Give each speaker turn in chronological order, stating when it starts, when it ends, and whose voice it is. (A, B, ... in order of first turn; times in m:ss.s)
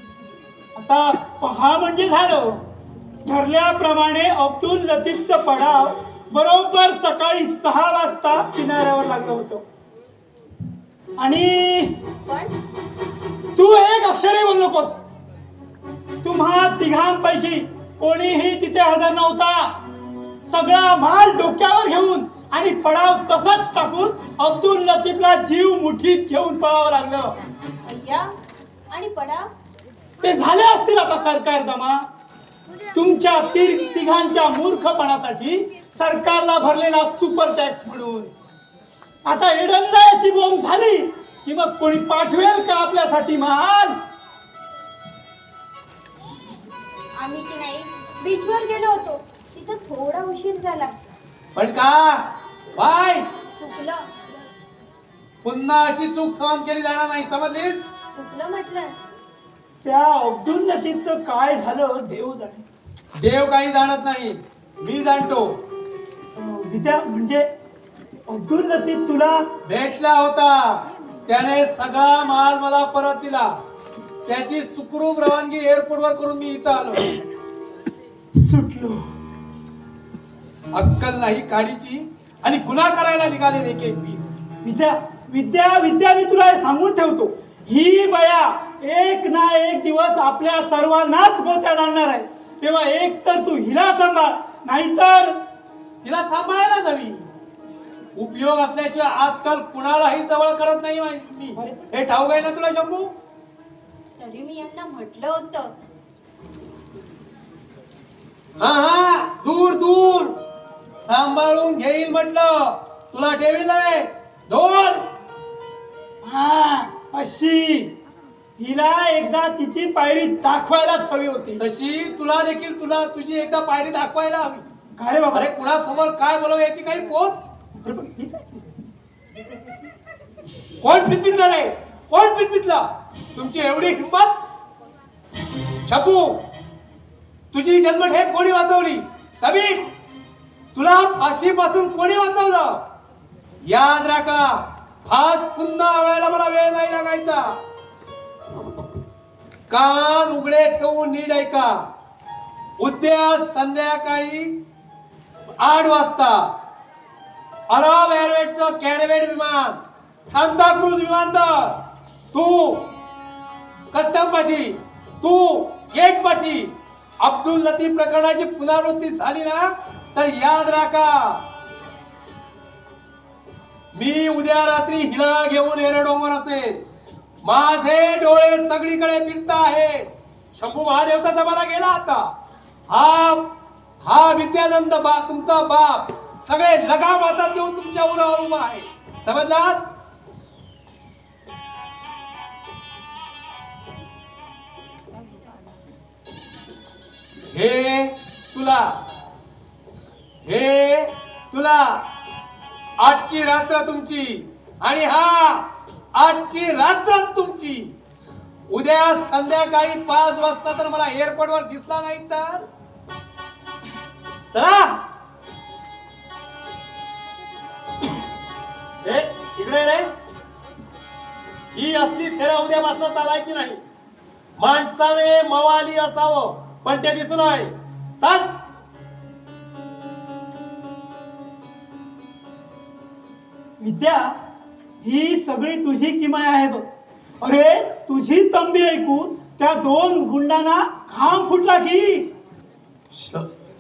0:00.8-0:02.6 A
0:03.2-0:09.6 A
0:11.2-0:12.1 A
0:12.2-0:12.6 B
0:13.6-0:15.0 A
0:16.2-0:19.9 A
0:20.4-0:27.4 A
0:27.8-0:28.4 B
0:28.9-0:29.5 B
0:30.2-0:32.1 A
0:32.9-0:38.3 A
0:39.2-0:44.0 A
0:47.2-0:51.0 B
0:51.6-0:53.2 C
0:53.6-0:54.1 B
0:55.4-0:57.8 C
0:58.1-0:59.0 B
0:59.8-1:02.6 A
1:03.2-1:05.6 C
1:06.4-1:07.4 A
1:08.3-1:09.5 A
1:09.6-1:13.6 C
1:14.3-1:17.2 C
1:18.4-1:19.0 A
1:20.7-1:24.2 C
1:24.6-1:35.4 A
1:36.0-1:37.3 C
1:38.2-1:43.1 C
1:41.6-1:41.9 A
1:44.2-1:45.7 B
1:48.6-1:50.4 C
1:51.0-1:55.0 C
1:56.2-1:57.9 A
1:58.6-2:01.6 A
2:01.6-2:04.6 C
2:05.0-2:05.5 A
2:05.3-2:07.4 C
2:07.8-2:08.6 A
2:10.8-2:14.4 C
2:15.8-2:16.4 C
2:17.5-2:19.9 C
2:20.8-2:22.8 C
2:23.6-2:27.6 C
2:29.7-2:31.8 C
2:32.8-2:34.6 C
2:35.6-2:36.5 C
2:37.7-2:42.9 C
2:43.9-2:51.4 C
2:53.9-2:56.8 C
2:57.4-3:02.3 C
3:02.9-3:03.5 C
3:04.0-3:09.8 C
3:17.5-3:19.0 C
3:20.4-3:22.1 C
3:23.0-3:27.9 C
3:28.7-3:32.6 C
3:34.5-3:35.0 C
3:39.0-3:40.1 C
3:41.7-3:43.8 C
3:44.6-3:48.5 C
3:53.8-3:54.3 A
3:55.0-3:56.8 A
3:57.4-4:02.3 A
4:03.1-4:03.5 C